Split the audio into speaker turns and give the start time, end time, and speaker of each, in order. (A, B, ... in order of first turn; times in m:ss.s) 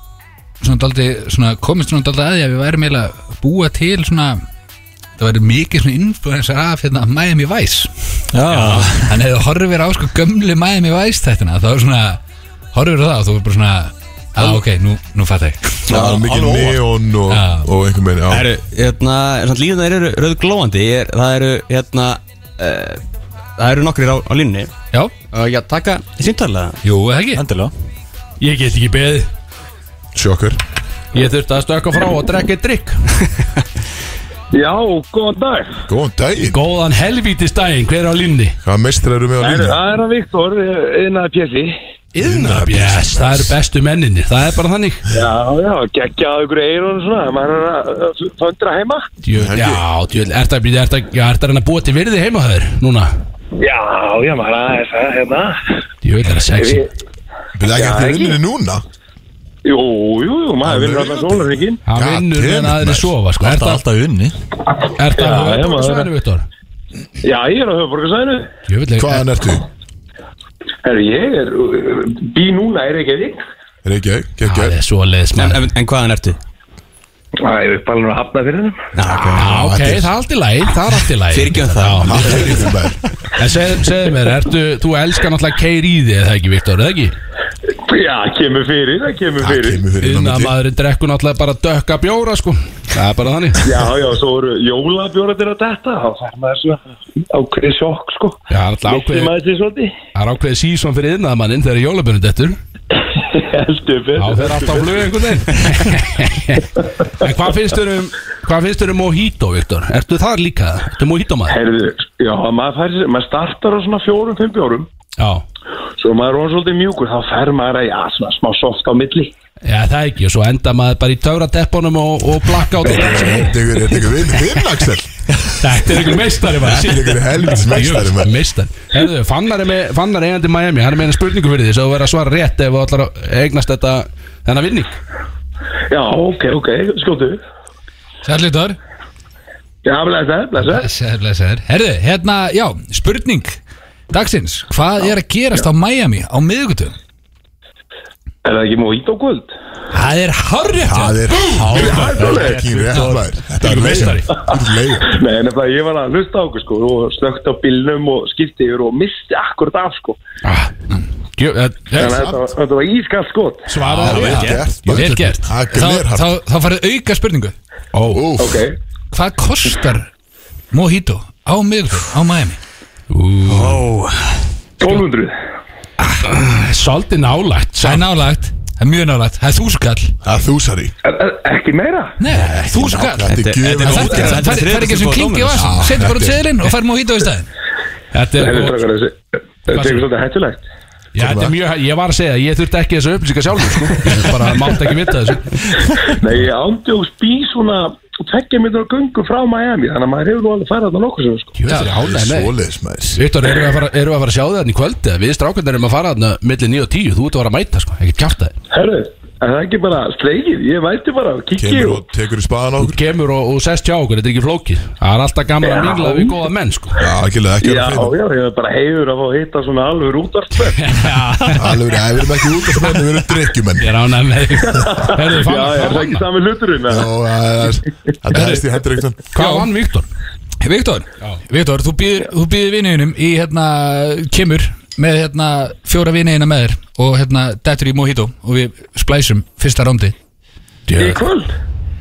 0:00.6-0:04.4 A
0:05.2-0:08.1 A
0:08.3-0:09.1 B
0:08.5-0:08.9 C
0:09.0-0:12.2 A
0:12.7-0:15.8 A
0:15.9-0:16.8 B
0:15.9-0:18.5 D
0:17.3-0:17.7 A
0:18.3-0:23.0 C
0:23.6-0:24.7 C
0:25.3-0:26.8 C
0:26.8-0:27.4 A
0:27.3-0:27.7 B
0:28.4-0:29.3 E
0:30.1-0:30.6 D
0:31.1-0:33.0 E
0:34.5-0:35.8 F
0:35.8-0:36.6 D
0:36.4-0:38.6 E
0:38.6-0:39.8 D
0:39.4-0:41.8 F
0:42.1-0:45.0 E
0:42.2-0:43.5 D
0:45.1-0:49.1 F
0:49.2-0:53.1 E
0:49.3-0:49.8 D
0:53.6-0:55.7 F
0:56.0-0:56.8 E
0:56.5-0:56.9 F
0:57.5-0:58.8 D
0:57.7-0:58.4 F
0:59.6-1:01.8 F
1:00.6-1:03.1 D
1:01.8-1:03.8 E
1:03.4-1:04.4 B
1:04.9-1:06.4 E
1:05.1-1:06.1 F
1:07.2-1:08.5 F
1:08.7-1:09.3 E
1:09.0-1:09.6 D
1:10.8-1:13.4 F
1:13.8-1:14.8 D
1:14.4-1:15.6 E
1:15.4-1:16.4 C
1:17.4-1:18.8 F
1:19.0-1:19.4 C
1:19.3-1:20.1 D
1:19.3-1:22.7 E
1:21.3-1:22.5 C
1:22.0-1:23.0 D
1:23.3-1:27.1 E
1:27.8-1:29.8 F
1:29.4-1:30.5 D
1:30.0-1:33.7 E
1:33.6-1:39.9 F
1:38.5-1:39.3 E
1:40.1-1:42.6 E
1:43.0-1:45.1 F
1:44.2-1:51.6 E
1:51.5-1:54.9 F
1:55.2-1:55.4 E
1:56.0-1:59.3 F
1:59.6-2:03.6 E
2:02.8-2:08.3 D
2:05.6-2:14.9 E
2:15.9-2:17.4 F
2:18.2-2:18.8 A
2:19.8-2:20.9 F
2:20.6-2:23.6 A
2:24.1-2:26.9 A
2:28.4-2:29.5 F
2:29.9-2:34.3 E
2:30.8-2:35.1 D
2:31.7-2:32.7 F
2:35.0-2:40.2 F
2:40.4-2:40.8 E
2:41.4-2:42.2 E
2:41.9-2:43.7 F
2:43.7-2:45.4 E
2:44.0-2:46.3 D
2:44.0-2:47.5 A
2:44.1-2:44.6 C
2:47.9-2:48.3 E
2:48.1-2:48.6 D
2:48.4-2:48.8 F
2:49.1-2:50.1 A
2:50.7-2:52.6 A
2:53.1-2:53.8 E
2:53.5-2:54.4 C
2:54.8-2:55.3 F
2:56.2-2:58.0 E
2:57.8-3:00.2 A
3:00.2-3:00.9 D
3:01.0-3:02.2 F
3:02.2-3:07.5 A
3:02.3-3:05.8 C
3:02.7-3:04.5 D
3:05.6-3:06.4 D
3:08.1-3:08.8 E
3:08.4-3:10.6 F
3:09.7-3:10.0 E
3:11.1-3:15.6 E
3:11.2-3:11.5 D
3:16.0-3:21.6 F
3:21.6-3:22.5 E
3:21.8-3:23.2 D
3:23.2-3:28.5 E
3:28.7-3:32.0 F
3:31.6-3:33.0 D
3:32.8-3:37.0 E
3:35.6-3:36.4 F
3:37.0-3:38.1 D
3:37.6-3:41.0 F
3:40.7-3:41.8 E
3:41.5-3:43.9 D
3:43.8-3:46.2 E
3:44.6-3:47.1 F
3:46.9-3:49.2 D
3:49.3-3:49.7 A
3:49.3-3:50.1 E
3:50.6-4:00.1 A
4:00.9-4:01.2 E
4:01.0-4:01.5 F